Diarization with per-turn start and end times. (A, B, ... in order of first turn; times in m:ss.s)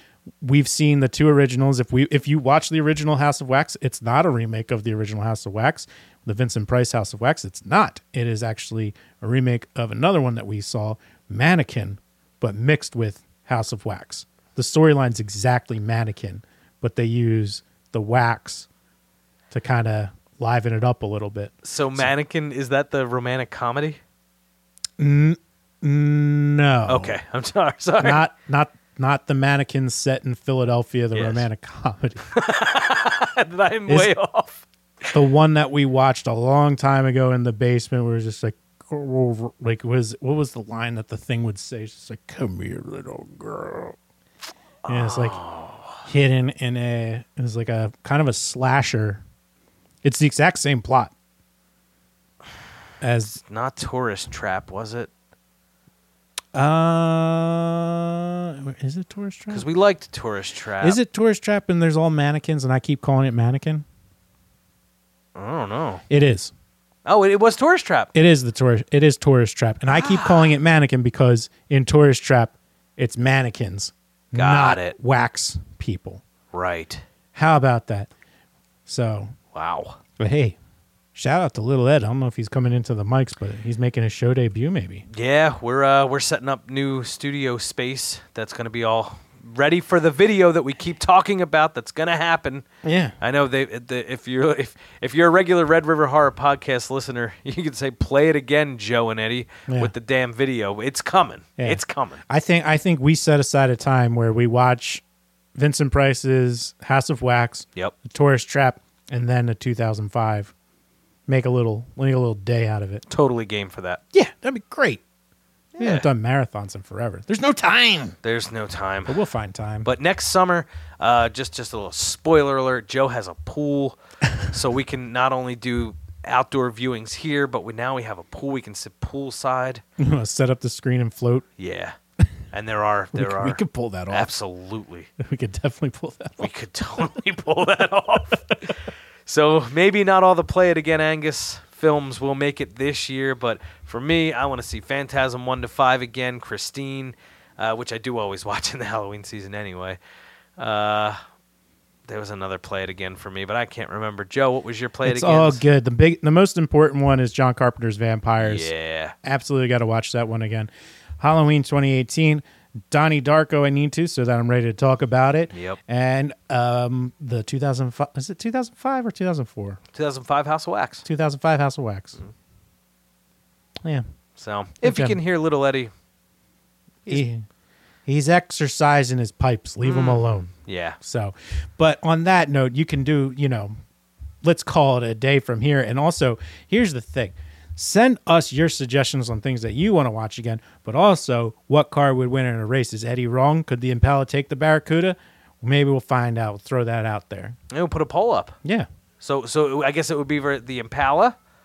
0:00.4-0:18.7 A
0:19.5-0:22.1 A
0:21.6-0:24.0 B
0:25.0-0:27.2 A
0:26.9-0:28.2 B
0:28.0-0:32.3 A
0:31.1-0:31.5 B
0:32.3-0:35.1 B
0:35.1-0:44.0 A
0:44.8-0:46.1 B
0:44.9-0:45.4 A
0:46.0-0:49.2 A
0:50.0-0:51.1 A
0:53.0-0:53.4 A
0:53.4-0:55.1 B
0:56.5-0:59.6 A
0:59.5-1:01.0 B
1:00.8-1:03.8 A
1:05.4-1:06.0 B
1:06.1-1:06.5 A
1:07.0-1:08.1 B
1:08.1-1:16.2 A
1:09.9-1:10.5 B
1:14.4-1:15.0 B
1:16.5-1:17.0 B
1:17.4-1:18.1 A
1:18.9-1:19.3 A
1:19.5-1:20.0 B
1:20.2-1:20.6 A
1:21.2-1:25.1 A
1:25.1-1:32.7 B
1:32.8-1:33.2 A
1:33.2-1:42.2 B
1:39.7-1:39.9 A
1:41.6-1:45.0 A
1:45.6-1:50.5 A
1:51.3-1:53.0 A
1:53.1-1:54.0 B
1:54.1-1:55.0 A
1:55.8-1:56.1 B
1:55.8-1:58.2 A
1:58.2-1:59.2 B
1:59.1-1:59.9 A
1:59.8-2:09.8 B
2:10.0-2:11.5 A
2:11.6-2:12.0 B
2:12.5-2:15.1 B
2:13.2-2:14.3 A
2:15.2-2:17.0 A
2:16.4-2:30.0 B
2:30.6-2:31.2 B
2:32.1-2:35.6 B
2:35.0-2:38.7 A
2:38.4-2:39.2 B
2:39.2-2:49.8 A
2:45.5-2:45.8 B
2:49.9-2:51.1 B
2:51.0-2:52.2 A
2:54.4-2:55.9 B
2:54.8-2:55.2 A
2:57.0-2:57.4 A
2:58.1-3:03.7 A
2:59.8-3:01.0 B
3:04.4-3:17.6 A
3:17.7-3:18.6 B
3:19.2-3:21.4 B